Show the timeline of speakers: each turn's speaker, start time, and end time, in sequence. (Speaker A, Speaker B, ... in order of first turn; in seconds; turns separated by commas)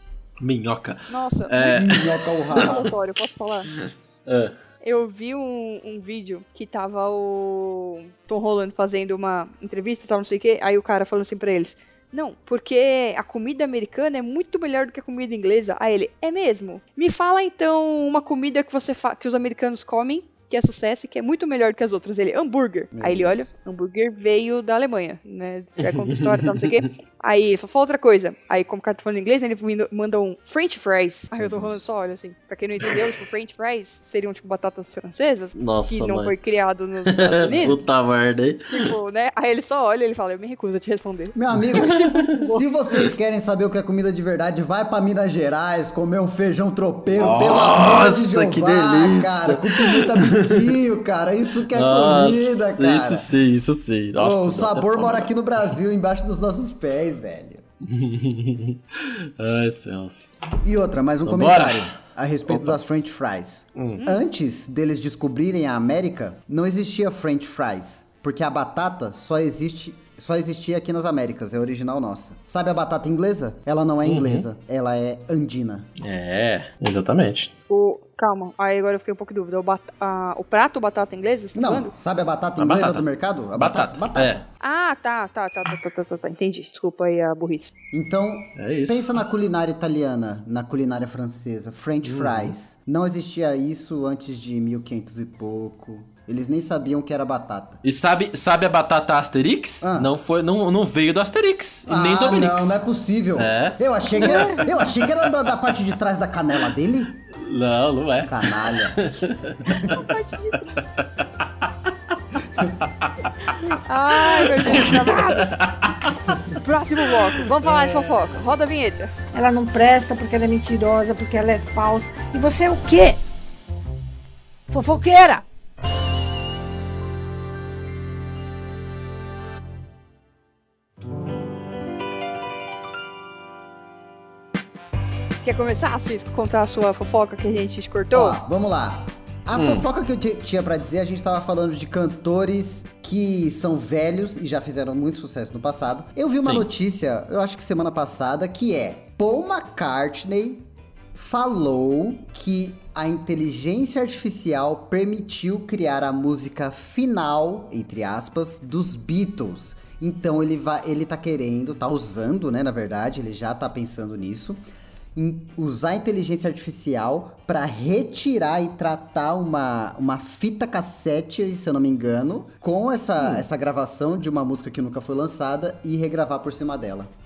Speaker A: 0.4-2.9, Speaker B: 1.1-1.9, Speaker C: 1.7-2.9, Speaker B: 2.5-3.7, Speaker A: 3.7-4.5, Speaker B: 4.8-37.8, Speaker C: 22.9-23.5, Speaker A: 25.8-26.8, Speaker C: 31.4-31.8, Speaker A: 35.6-36.4, Speaker A: 37.0-38.9, Speaker C: 37.4-37.8, Speaker B: 38.7-42.6, Speaker C: 41.4-53.3, Speaker A: 41.8-42.2, Speaker A: 47.1-50.8, Speaker A: 51.7-55.3, Speaker C: 54.2-57.6, Speaker A: 57.9-60.3, Speaker C: 60.6-75.9, Speaker A: 61.3-62.0, Speaker A: 62.5-62.8, Speaker A: 63.8-64.0, Speaker B: 64.0-64.2, Speaker A: 74.0-74.5, Speaker A: 76.0-77.5, Speaker B: 77.7-81.9, Speaker C: 81.5-84.5, Speaker A: 82.6-83.0, Speaker A: 83.6-84.4, Speaker B: 84.6-87.8, Speaker C: 87.9-97.8, Speaker A: 88.6-89.2, Speaker A: 92.0-92.5, Speaker A: 97.8-104.7, Speaker C: 99.8-100.1, Speaker C: 101.9-107.2, Speaker B: 104.2-104.7, Speaker A: 107.3-110.2, Speaker C: 108.3-109.1, Speaker C: 109.7-109.9, Speaker B: 109.8-110.8, Speaker A: 110.8-113.6, Speaker B: 113.7-115.5, Speaker A: 114.1-118.3, Speaker B: 116.6-119.1, Speaker D: 119.3-123.2, Speaker D: 124.7-125.4, Speaker B: 135.4-138.4, Speaker C: 138.1-164.6, Speaker A: 139.6-139.9, Speaker A: 146.4-146.7, Speaker C: 165.2-177.1, Speaker A: 173.2-173.4